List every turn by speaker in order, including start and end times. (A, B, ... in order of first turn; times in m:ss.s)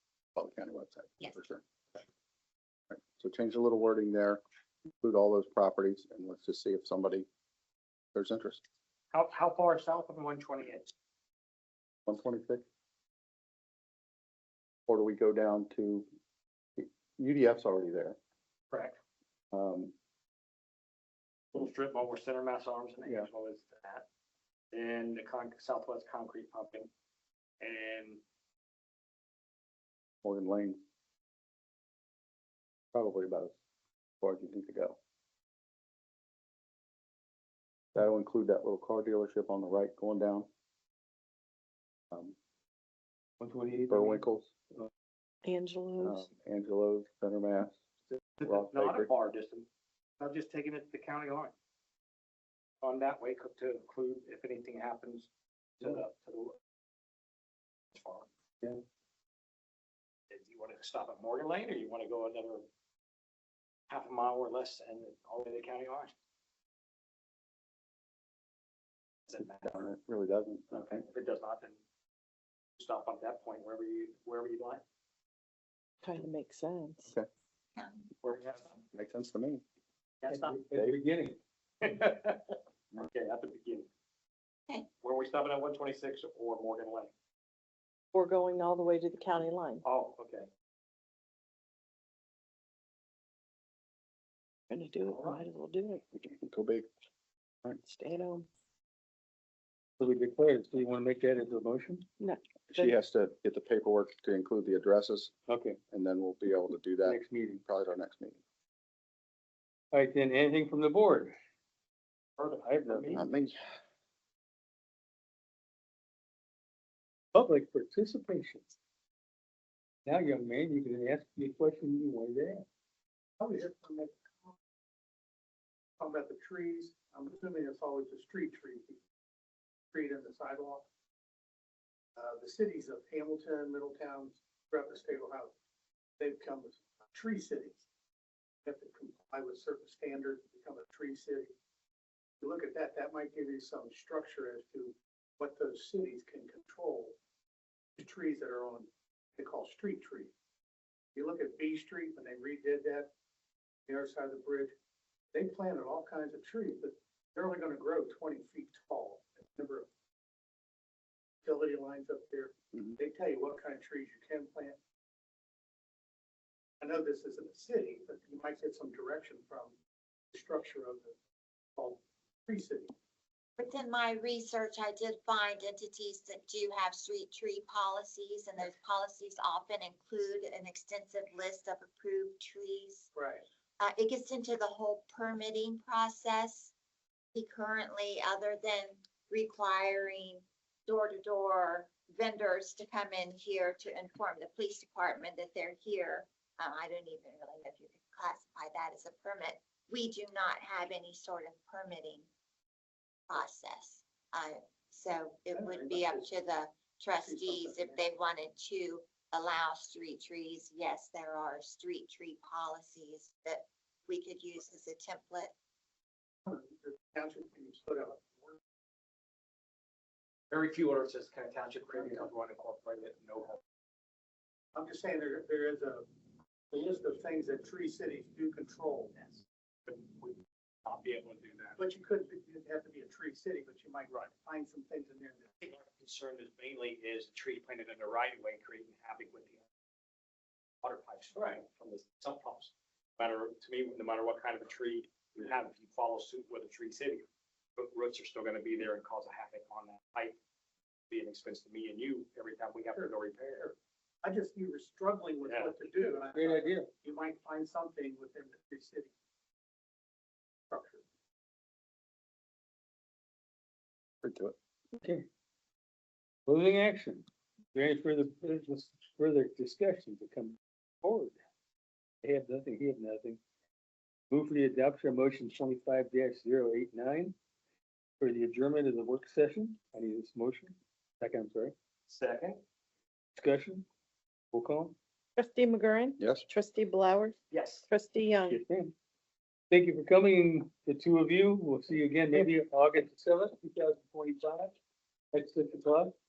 0:00.3-0:01.6 A
0:02.9-0:04.4 A
0:05.0-0:07.3 A
0:08.1-0:08.6 A
0:09.1-0:10.9 B
0:12.0-0:12.6 A
0:14.9-0:16.1 A
0:16.8-0:18.2 A
0:18.7-0:19.0 B
0:19.5-0:19.9 A
0:21.5-0:24.0 B
0:24.7-0:26.9 B
0:27.6-0:28.2 B
0:30.2-0:30.8 A
0:32.9-0:33.6 A
0:34.2-0:35.0 A
0:37.9-0:40.5 A
0:42.1-0:42.4 A
0:43.4-0:44.2 C
0:43.9-0:44.5 A
0:45.4-0:46.3 D
0:46.0-0:47.8 A
0:48.4-0:49.7 B
0:48.4-0:49.1 A
0:50.2-0:51.5 B
0:52.8-0:56.6 B
0:57.9-0:58.3 B
1:00.3-1:02.6 B
1:03.9-1:06.1 B
1:09.3-1:09.8 B
1:09.4-1:11.0 A
1:10.7-1:11.8 B
1:12.8-1:14.8 B
1:16.0-1:17.1 D
1:18.2-1:18.8 B
1:18.9-1:19.6 A
1:20.2-1:20.7 B
1:20.3-1:21.4 C
1:21.8-1:23.9 B
1:25.0-1:27.1 B
1:28.1-1:29.8 D
1:29.8-1:30.5 B
1:34.7-1:36.0 D
1:35.0-1:35.4 B
1:36.2-1:36.9 A
1:37.7-1:38.5 D
1:40.0-1:42.1 C
1:42.2-1:42.9 D
1:42.7-1:45.3 A
1:45.5-1:45.8 C
1:45.9-1:48.4 A
1:47.0-1:47.6 C
1:49.9-1:51.3 C
1:52.4-1:53.2 B
1:52.6-1:53.2 C
1:53.1-1:53.6 A
1:57.3-1:58.7 C
2:00.0-2:02.6 C
2:03.4-2:04.5 E
2:06.0-2:09.0 E
2:09.9-2:10.8 E
2:12.2-2:15.5 E
2:16.2-2:17.8 E
2:18.6-2:21.5 E
2:22.4-2:27.2 E
2:28.0-2:30.3 E
2:31.1-2:33.1 E
2:33.9-2:34.7 E
2:35.3-2:39.9 E
2:41.4-2:44.8 E
2:46.8-2:49.7 E
2:50.3-2:51.1 E
2:51.8-2:52.9 E
2:53.6-3:03.1 F
3:03.1-3:03.4 E
3:03.8-3:06.7 F
3:07.3-3:22.3 F
3:23.3-3:35.5 F
3:25.5-3:26.3 E
3:27.2-3:28.0 E
3:36.4-3:38.6 E
3:40.5-3:43.6 B
3:41.9-3:42.3 E
3:44.7-3:46.0 E
3:46.7-3:49.1 E
3:49.1-3:51.8 B
3:51.8-3:55.5 E
3:55.6-3:59.6 B
4:00.8-4:07.2 B
4:07.8-4:10.3 B
4:11.1-4:13.7 B
4:12.9-4:13.7 E
4:14.2-4:19.1 E
4:15.4-4:15.8 B
4:16.2-4:16.9 C
4:20.7-4:21.0 E
4:24.2-4:24.6 A
4:26.4-4:31.4 C
4:32.2-4:33.4 C
4:34.3-4:37.3 C
4:38.2-4:41.7 C
4:42.1-4:42.6 B
4:43.4-4:43.8 C
4:44.5-4:44.9 C
4:45.4-4:47.4 D
4:46.2-4:46.4 A
4:47.5-4:47.9 B
4:47.9-4:48.6 D
4:48.5-4:48.9 C
4:49.7-4:54.8 C
4:55.3-4:56.1 C